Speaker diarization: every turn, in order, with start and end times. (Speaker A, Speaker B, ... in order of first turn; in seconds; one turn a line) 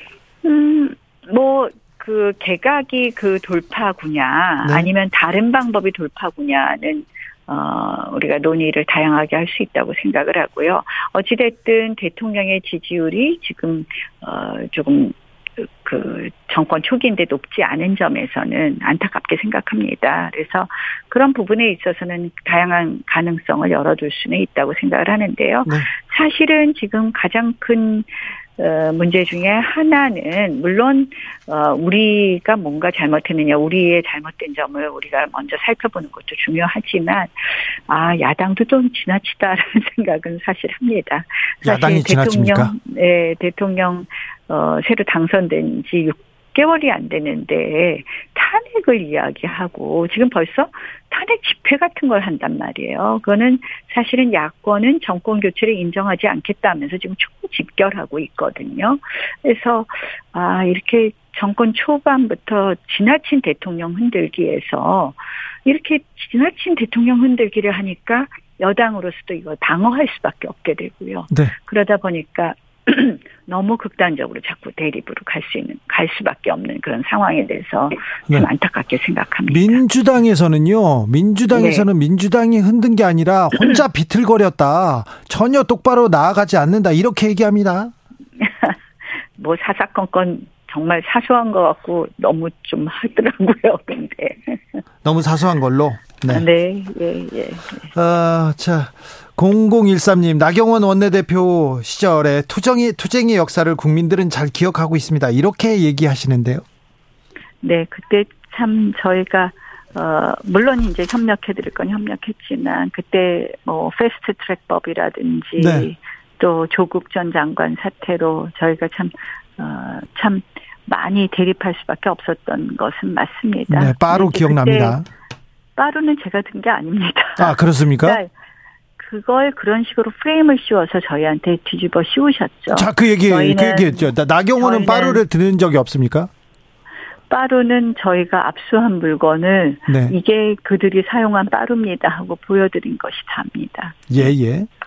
Speaker A: 0.4-79.8
Speaker B: 4.7-4.9
Speaker B: 41.6-42.8
Speaker B: 79.5-87.9
Speaker A: 81.5-81.9
Speaker A: 88.4-88.8
Speaker A: 89.4-94.8
Speaker B: 95.0-96.5
Speaker A: 96.3-97.9
Speaker B: 97.9-106.6
Speaker A: 107.6-125.0
Speaker B: 115.6-115.9
Speaker B: 123.7-125.1
Speaker A: 125.8-128.3
Speaker B: 127.4-128.2
Speaker A: 129.0-135.2
Speaker B: 132.7-136.3
Speaker A: 137.3-144.3
Speaker B: 139.9-140.2
Speaker B: 144.1-144.7